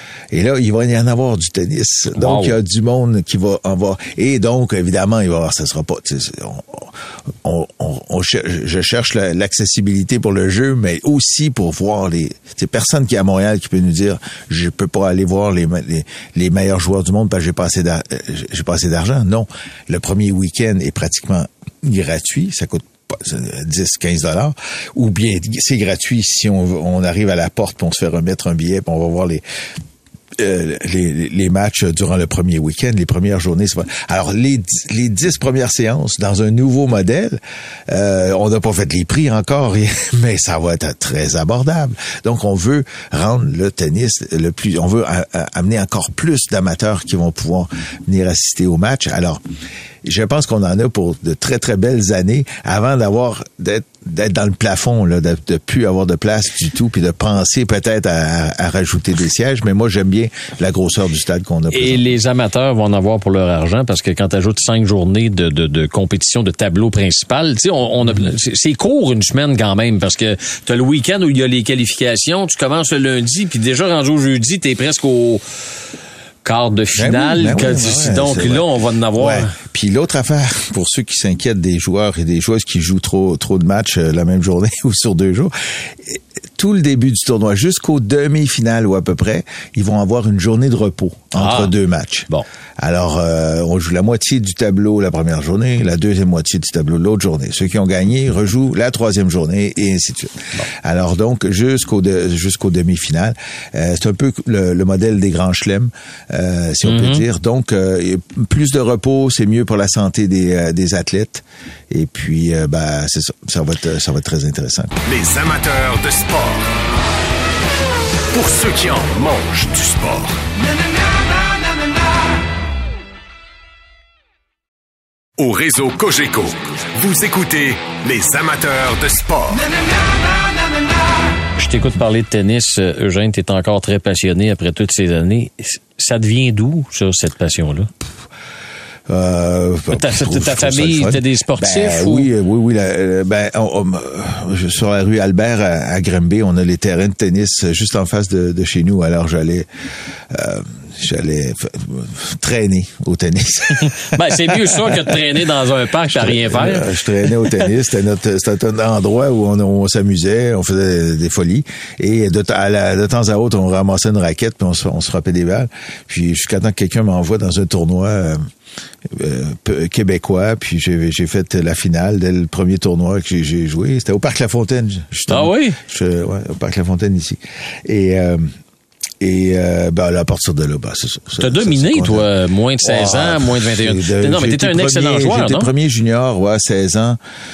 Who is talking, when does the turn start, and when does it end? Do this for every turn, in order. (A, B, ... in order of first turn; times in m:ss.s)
0:00.3-0:29.4 A
0:02.1-0:02.6 B
0:30.4-0:49.4 A
0:50.0-1:02.0 A
1:01.7-1:15.4 B
1:16.4-1:19.5 B
1:17.0-1:55.0 A
1:31.4-1:31.7 B
1:46.8-1:47.2 B
1:55.0-1:56.8 C
1:58.3-2:00.4 C
2:05.4-2:09.7 C
2:11.6-2:17.9 B
2:19.1-2:29.7 A
2:19.9-2:22.3 B
2:30.3-2:35.2 A
2:33.8-2:36.9 B
2:36.1-2:48.4 A
2:49.1-2:58.5 A
2:55.3-2:55.8 B
2:59.2-3:02.2 A
3:01.4-3:05.7 B
3:02.8-3:07.2 A